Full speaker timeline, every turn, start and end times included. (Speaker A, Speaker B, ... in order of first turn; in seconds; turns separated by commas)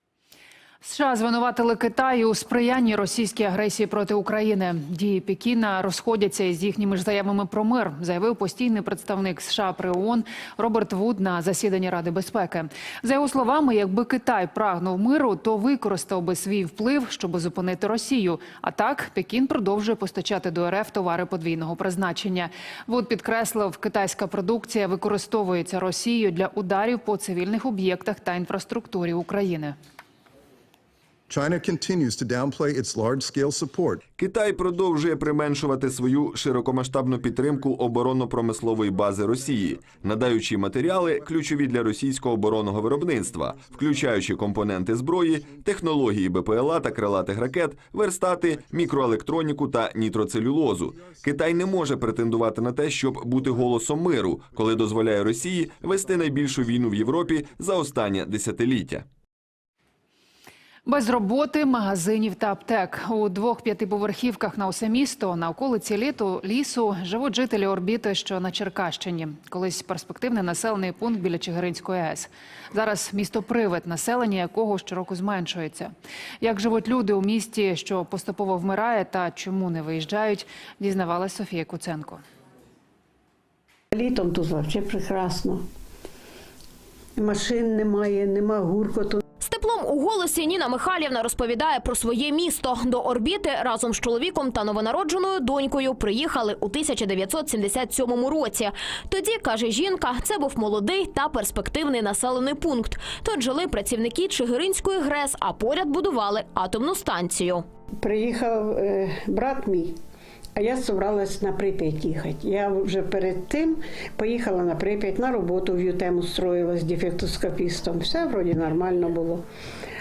Speaker A: 0.8-29.8, Speaker B: 31.3-34.0, Speaker C: 34.2-59.0, Speaker A: 60.9-82.2, Speaker D: 83.9-85.6, Speaker D: 87.2-89.2, Speaker E: 89.4-107.6, Speaker D: 108.0-109.9, Speaker D: 110.5-119.4